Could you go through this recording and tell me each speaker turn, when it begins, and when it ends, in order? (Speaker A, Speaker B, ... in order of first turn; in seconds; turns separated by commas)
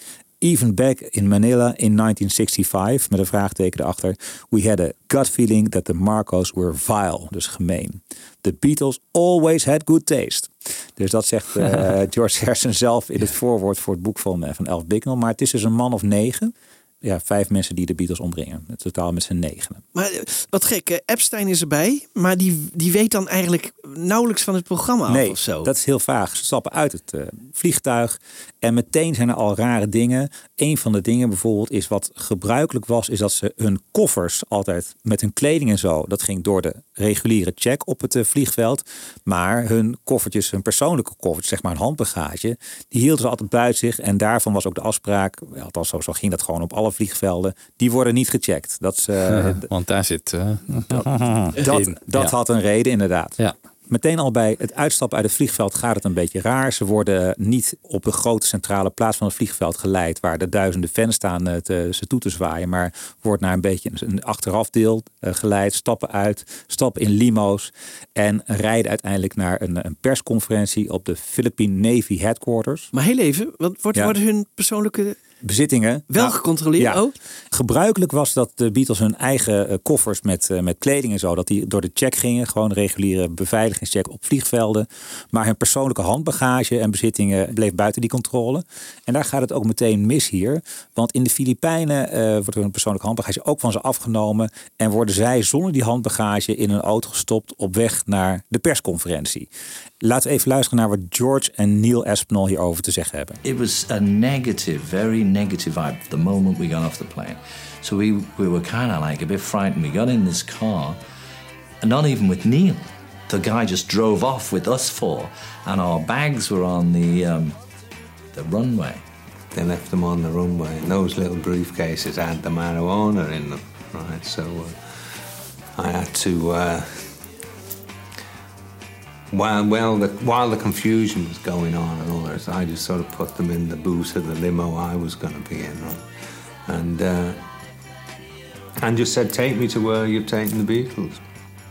Speaker A: 0.4-19.8, Speaker B: 19.9-25.7, Speaker A: 25.1-49.7, Speaker C: 49.3-52.3, Speaker A: 50.9-53.4, Speaker A: 53.9-72.9, Speaker B: 72.9-75.2, Speaker A: 75.4-99.5, Speaker B: 76.1-77.1, Speaker A: 100.0-103.4, Speaker D: 103.4-111.0, Speaker D: 111.8-117.5, Speaker D: 118.3-119.0, Speaker E: 119.5-127.2, Speaker E: 129.3-136.0, Speaker E: 136.7-137.4, Speaker E: 138.8-141.2